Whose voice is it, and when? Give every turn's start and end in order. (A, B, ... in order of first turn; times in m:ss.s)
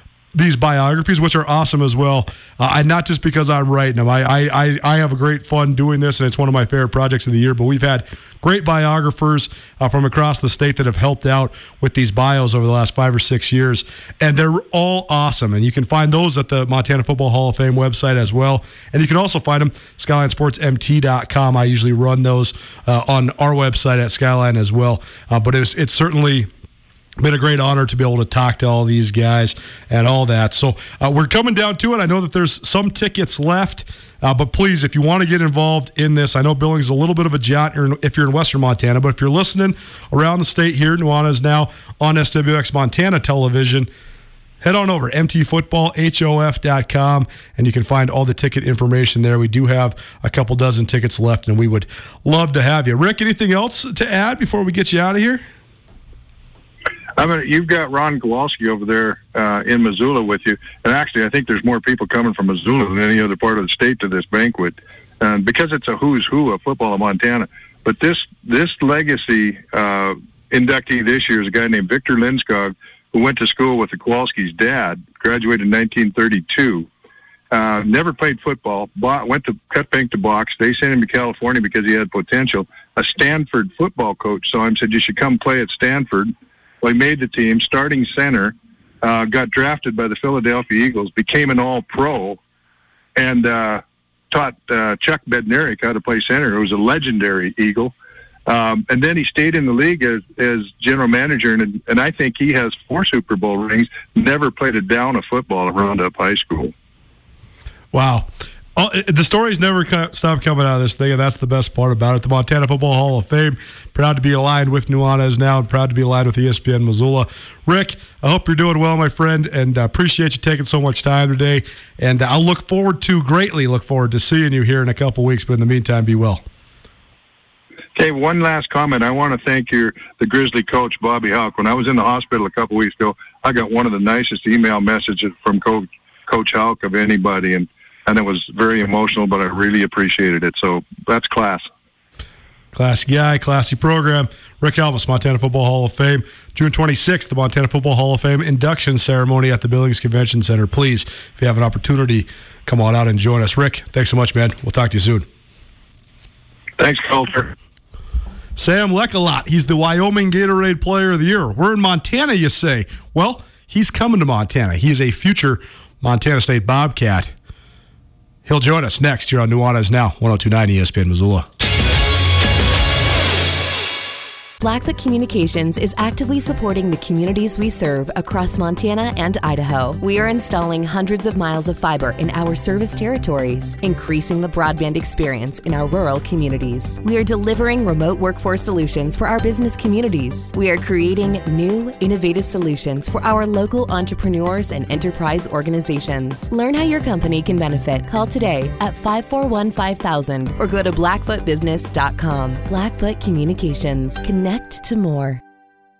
0:00.3-0:26.5 A
0:27.2-0:43.9 A
0:44.6-0:55.4 A
0:57.2-1:16.9 B
1:17.5-1:32.4 B
1:33.2-1:37.9 B
1:38.5-1:46.7 B
1:47.9-2:06.4 A
2:08.0-2:21.7 B
2:22.7-2:35.2 A
2:36.8-2:37.5 B
2:38.6-2:47.3 A
2:48.4-2:51.4 A
2:54.6-3:25.4 C